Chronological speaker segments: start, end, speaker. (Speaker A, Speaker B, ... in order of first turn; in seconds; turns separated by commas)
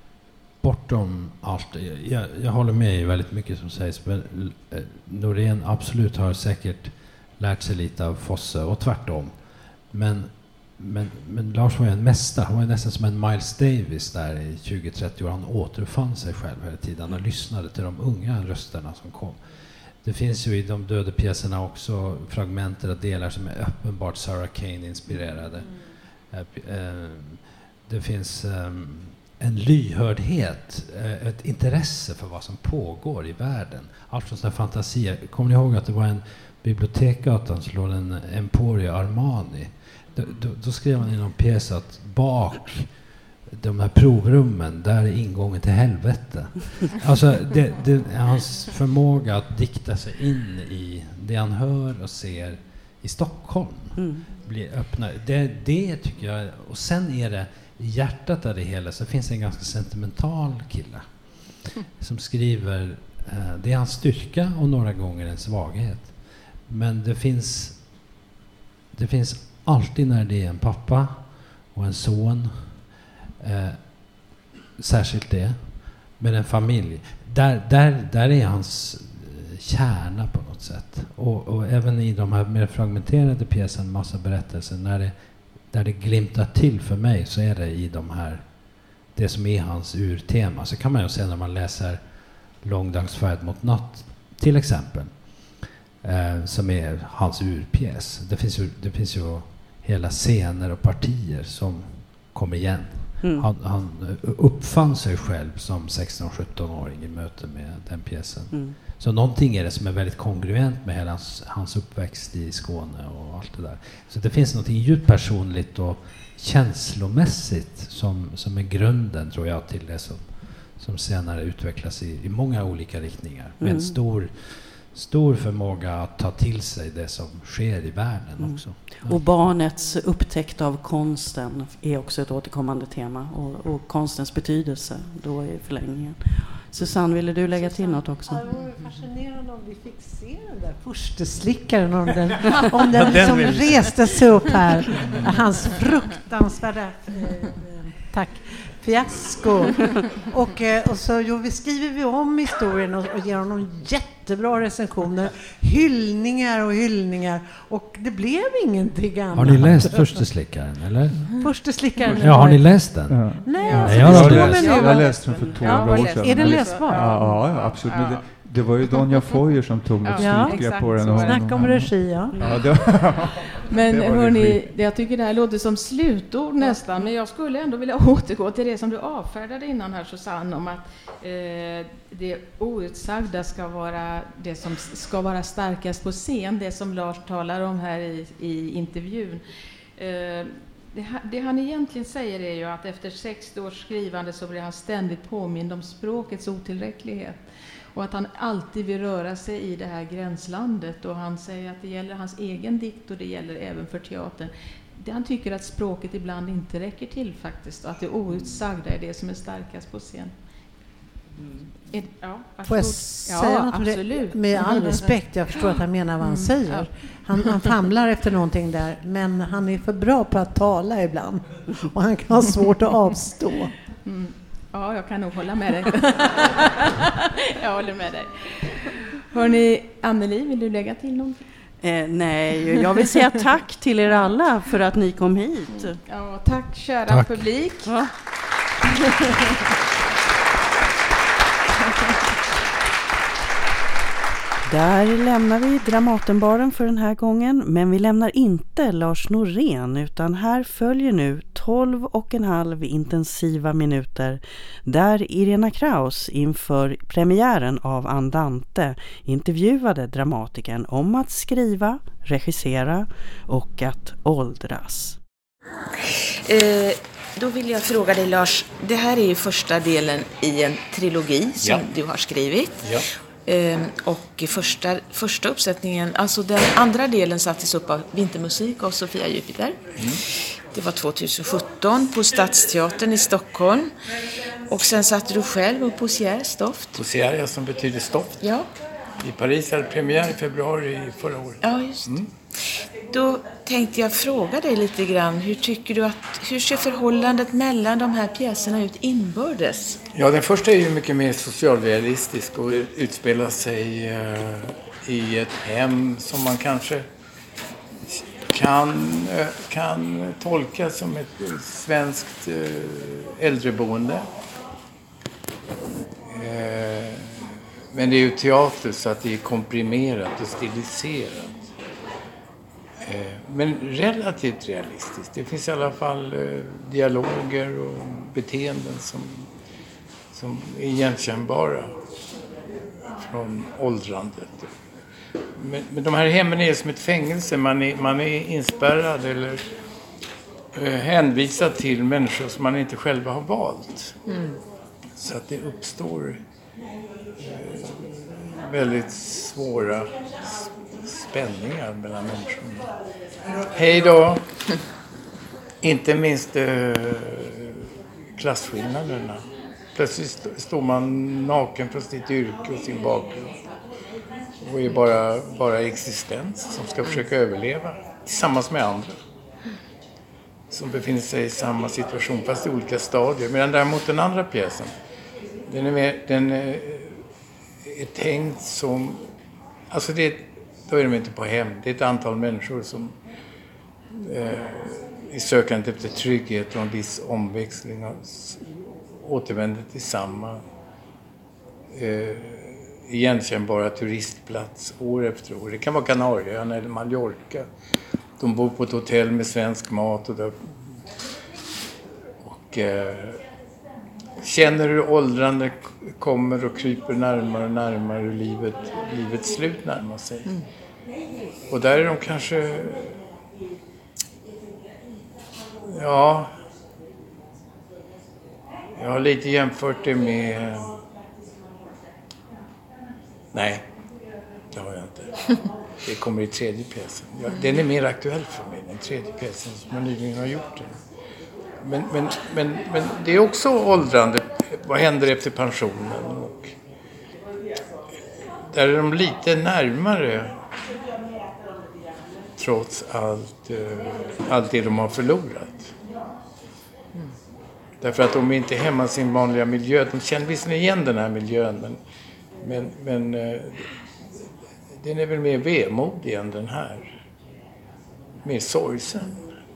Speaker A: 0.6-68.1, Speaker B: 54.0-54.3, Speaker A: 68.9-129.2, Speaker B: 103.2-103.5, Speaker B: 108.5-108.8, Speaker B: 123.6-124.0, Speaker B: 128.4-138.5, Speaker C: 137.5-160.3, Speaker D: 143.1-143.9, Speaker E: 144.9-145.4, Speaker A: 159.3-161.4, Speaker C: 161.3-167.4, Speaker A: 162.2-163.2, Speaker E: 163.0-174.7, Speaker F: 163.5-168.2, Speaker A: 163.8-164.6, Speaker F: 168.9-169.2, Speaker F: 170.0-171.5, Speaker C: 170.2-172.4, Speaker F: 173.7-189.4, Speaker F: 190.0-210.3, Speaker F: 211.9-215.1, Speaker C: 212.7-223.7, Speaker F: 216.2-216.9, Speaker F: 224.0-231.4, Speaker B: 231.8-236.0, Speaker F: 235.7-237.9, Speaker A: 237.1-237.4, Speaker B: 237.8-238.1, Speaker B: 244.7-265.2, Speaker G: 266.0-279.8, Speaker D: 271.6-271.9, Speaker D: 272.8-273.1, Speaker G: 280.7-283.9, Speaker G: 284.7-287.0, Speaker D: 286.9-288.5, Speaker G: 288.4-288.7, Speaker D: 289.2-292.3, Speaker G: 291.6-292.2, Speaker G: 293.0-300.0, Speaker D: 300.1-307.1, Speaker D: 308.1-314.3, Speaker D: 316.3-321.7, Speaker D: 323.0-329.5, Speaker D: 330.3-332.0, Speaker D: 333.0-334.7, Speaker D: 335.6-339.7, Speaker D: 340.7-344.2, Speaker G: 344.2-344.6, Speaker D: 345.2-346.4, Speaker D: 347.4-352.9, Speaker D: 353.6-354.5, Speaker D: 355.8-363.6, Speaker D: 364.6-369.2, Speaker D: 370.7-374.9, Speaker D: 375.7-377.2, Speaker D: 377.8-379.2, Speaker D: 379.9-383.2, Speaker D: 384.1-390.6, Speaker D: 391.9-397.7, Speaker D: 398.4-400.8, Speaker D: 402.4-403.4, Speaker D: 404.4-410.5, Speaker D: 411.7-413.2, Speaker D: 415.9-416.5, Speaker D: 418.9-421.0, Speaker D: 423.5-423.8, Speaker D: 424.7-425.3, Speaker D: 426.0-431.0, Speaker G: 427.5-427.8, Speaker D: 431.8-436.8, Speaker D: 438.7-440.6, Speaker D: 442.6-445.9, Speaker D: 448.0-452.0, Speaker D: 452.6-453.9, Speaker D: 454.9-457.2, Speaker D: 458.4-459.4